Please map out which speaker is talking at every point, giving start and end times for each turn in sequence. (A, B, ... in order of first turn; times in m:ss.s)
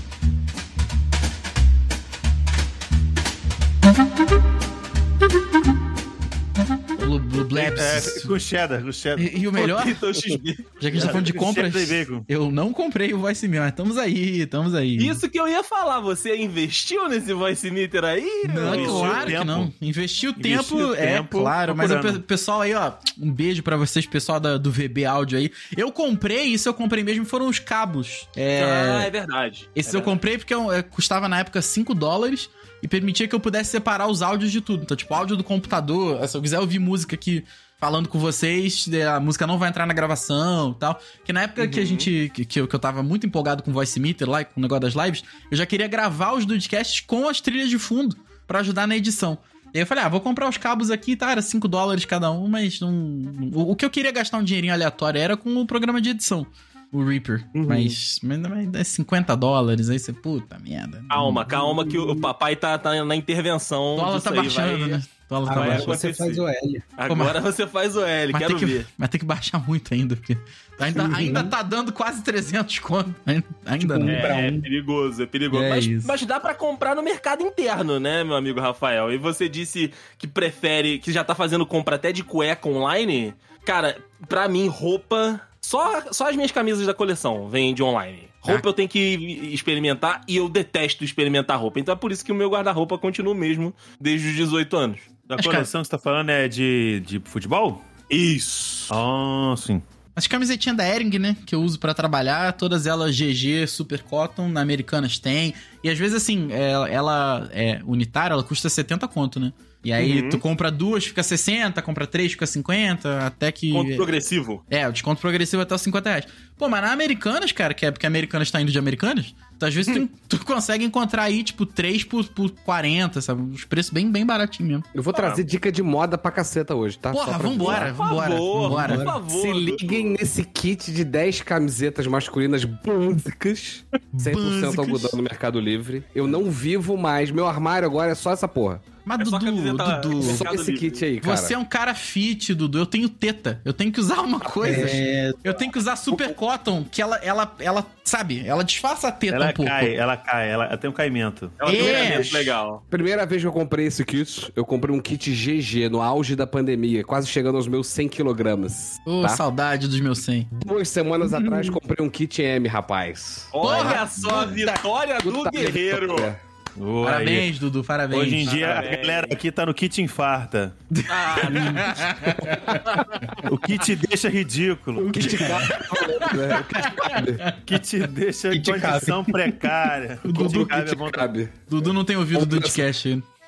0:07.0-0:08.3 A
0:07.5-0:09.4 B
0:09.2-0:10.0 A
0:09.6-0:11.1 C
0:10.8-0:15.2 A
0:10.9-0:12.2 B
0:15.0-0:19.4 C
0:18.4-0:29.1 A
0:18.6-0:19.7 B
0:20.4-0:22.2 B
0:28.6-0:30.2 C
0:29.8-1:01.5 A
0:41.6-0:42.1 C
0:57.6-0:57.9 C
1:01.1-1:06.4 C
1:01.5-1:02.3 D
1:04.0-1:06.0 A
1:05.5-1:06.8 D
1:07.0-1:08.9 C
1:07.1-1:07.4 A
1:08.3-1:14.3 A
1:10.8-1:11.5 D
1:13.8-1:14.6 D
1:14.0-1:35.1 C
1:15.5-1:16.1 A
1:35.3-1:37.8 B
1:35.4-1:35.7 A
1:38.1-1:38.9 C
1:38.9-1:39.8 B
1:40.2-1:54.1 A
1:50.0-1:50.4 C
1:53.7-1:54.6 C
1:54.7-2:04.8 A
2:04.9-2:07.9 E
2:05.1-2:05.4 C
2:07.1-2:09.1 A
2:07.6-2:10.2 C
2:08.6-2:09.2 D
2:09.2-2:18.8 E
2:14.1-2:15.2 A
2:19.0-2:20.5 A
2:19.2-2:21.0 C
2:20.2-2:21.6 E
2:21.2-2:29.9 A
2:24.6-2:25.7 D
2:29.3-2:32.6 B
2:31.6-2:32.8 C
2:31.6-2:32.3 A
2:32.9-2:39.4 E
2:39.0-2:40.5 A
2:40.5-2:44.0 E
2:43.5-2:46.3 C
2:43.6-2:44.8 A
2:44.2-2:44.5 B
2:45.2-2:46.4 E
2:46.8-2:47.5 B
2:47.0-2:48.6 A
2:48.1-2:50.8 B
2:48.4-2:49.4 C
2:51.0-2:53.3 A
2:51.1-2:51.9 C
2:53.4-2:55.5 B
2:55.0-2:57.6 A
2:55.1-2:57.4 E
2:57.5-3:01.3 B
2:58.5-2:59.5 D
3:00.2-3:00.9 A
3:00.4-3:02.8 E
3:01.7-3:03.2 A